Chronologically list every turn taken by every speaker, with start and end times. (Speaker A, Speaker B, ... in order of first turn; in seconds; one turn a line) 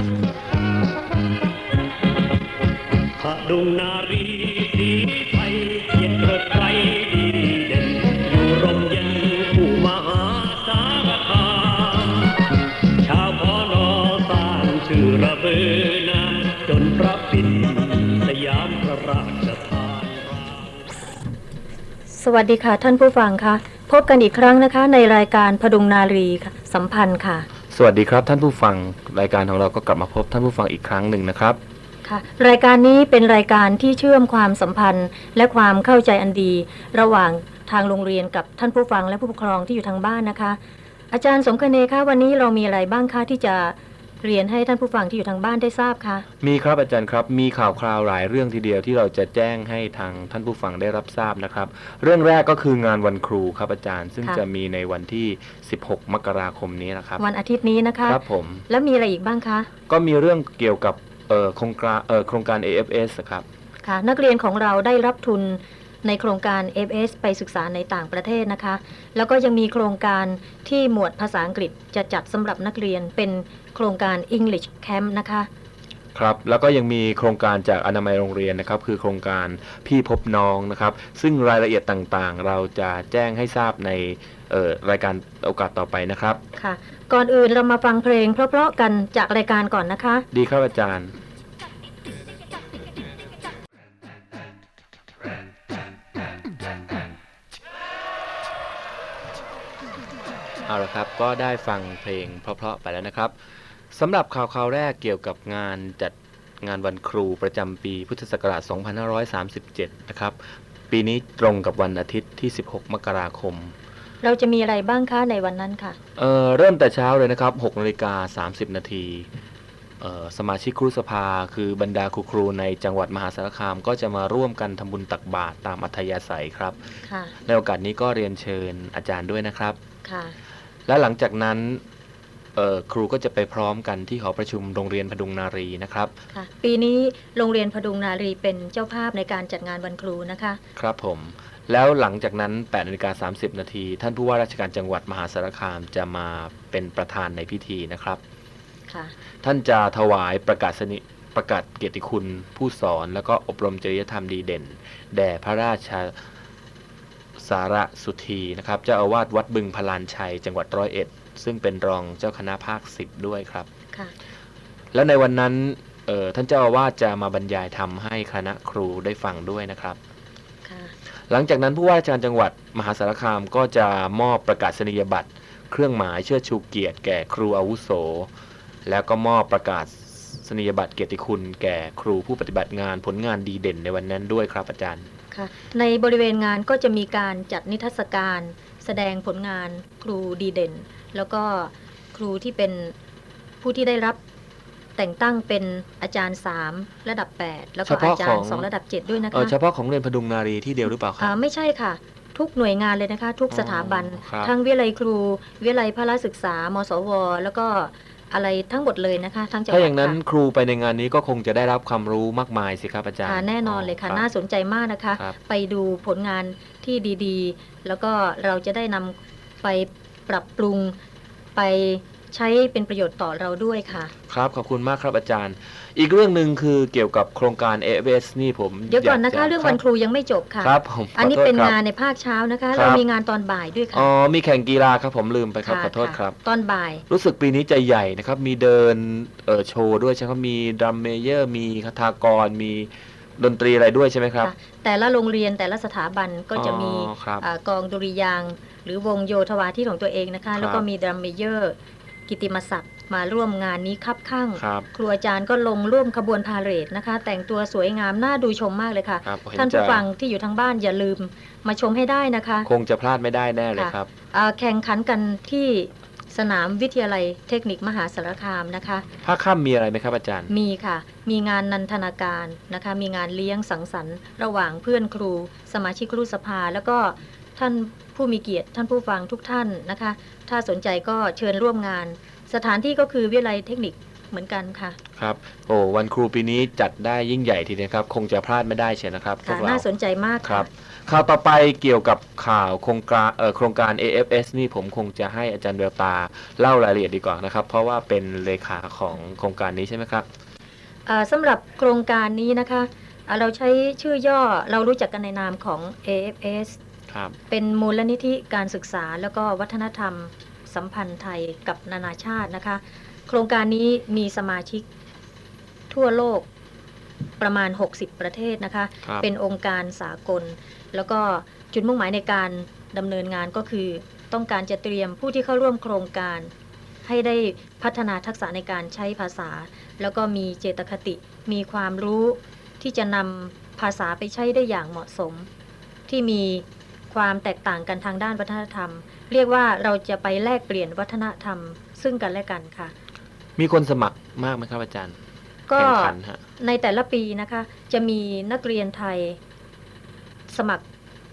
Speaker A: 3.2-20.9
Speaker B: 22.1-27.5
Speaker C: 27.7-31.6
Speaker B: 32.0-40.6
Speaker B: 41.1-46.2
Speaker C: 46.4-57.2
Speaker B: 57.2-59.7
Speaker C: 58.0-58.6
Speaker C: 59.9-63.4
Speaker B: 63.8-75.5
Speaker C: 76.1-86.4
Speaker B: 86.5-90.2
Speaker C: 90.3-91.1
Speaker C: 100.6-103.3
Speaker C: 103.9-110.4
Speaker C: 110.9-113.7
Speaker B: 114.2-116.0
Speaker C: 116.2-119.3
Speaker C: 120.0-126.8
Speaker B: 127.0-127.3
Speaker C: 127.5-129.8
Speaker B: 130.0-130.3
Speaker C: 130.9-131.8
Speaker C: 132.6-136.1
Speaker B: 136.3-140.6
Speaker C: 140.8-148.2
Speaker B: 148.9-149.2
Speaker C: 149.4-156.1
Speaker C: 157.3-163.7
Speaker C: 164.9-170.0
Speaker B: 170.6-170.9
Speaker C: 171.3-178.3
Speaker C: 178.8-185.1
Speaker B: 185.3-192.9
Speaker B: 193.6-194.2
Speaker B: 195.0-199.5
Speaker C: 197.8-198.7
Speaker C: 199.3-201.3
Speaker B: 201.2-210.2
Speaker C: 203.5-204.5
Speaker C: 209.7-214.2
Speaker B: 213.2-220.9
Speaker B: 221.6-224.1
Speaker C: 224.3-229.8
Speaker B: 228.9-234.1
Speaker C: 230.6-231.8
Speaker C: 232.7-233.0
Speaker C: 233.9-236.3
Speaker B: 235.6-237.0
Speaker C: 237.1-244.5
Speaker B: 244.4-251.7
Speaker C: 246.5-247.4
Speaker C: 250.6-250.8
Speaker B: 252.3-262.7
Speaker C: 254.6-254.9
Speaker C: 259.2-260.1
Speaker C: 262.6-264.1
Speaker B: 263.7-269.1
Speaker C: 269.2-270.5
Speaker B: 270.5-285.0
Speaker C: 285.1-289.8
Speaker B: 289.4-290.7
Speaker C: 290.4-300.2
Speaker B: 301.1-306.8
Speaker C: 307.1-307.4
Speaker B: 307.5-314.9
Speaker B: 315.9-316.5
Speaker B: 317.4-326.5
Speaker B: 327.0-335.5
Speaker B: 336.1-342.9
Speaker C: 343.6-345.2
Speaker B: 345.7-349.4
Speaker C: 345.8-346.4
Speaker B: 350.5-350.8